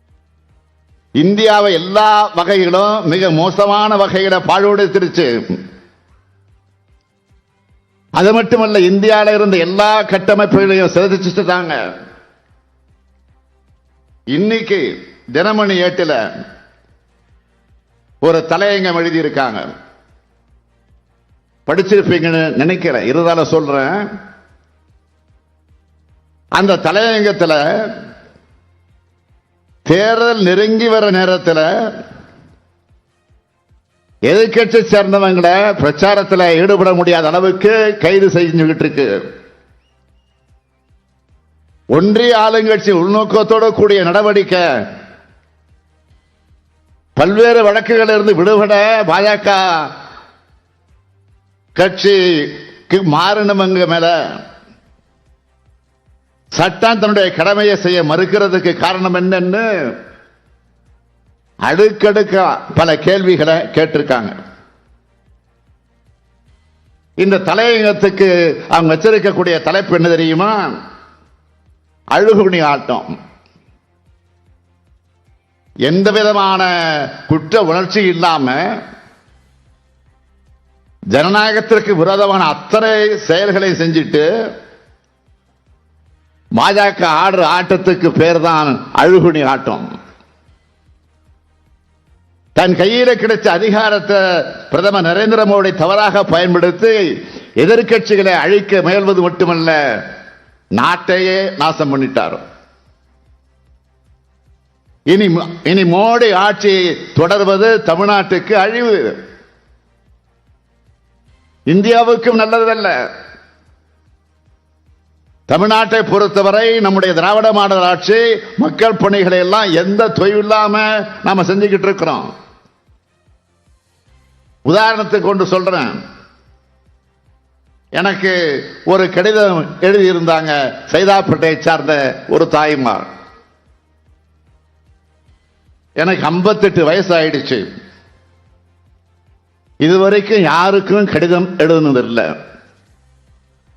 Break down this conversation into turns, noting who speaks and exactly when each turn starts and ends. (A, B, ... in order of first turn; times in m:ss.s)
0:01.2-0:05.6 A
0:08.2-0:11.8 A
0:14.3-0:16.2 A
0:18.2-0:19.7 A
0:21.7-0:24.1 A
0:26.6-0:27.6 A
0:29.9-0:31.7 A
0:34.3-0:39.2 A
0:41.9-0:44.7 A
0:47.2-0:49.9 A
0:51.8-0:54.2 A
0:56.6-0:59.7 A
1:01.7-1:04.4 A
1:07.2-1:10.8 A
1:12.1-1:13.1 A
1:15.9-1:18.6 A
1:21.1-1:24.3 A
1:26.6-1:29.9 A
1:32.6-1:37.0 A
1:37.6-1:40.0 A
1:40.8-1:42.4 A
1:45.1-1:49.2 A
1:51.7-1:53.0 A
1:55.5-2:02.3 A
2:04.7-2:06.0 A
2:08.0-2:13.1 A
2:16.0-2:17.7 A
2:19.8-2:22.3 A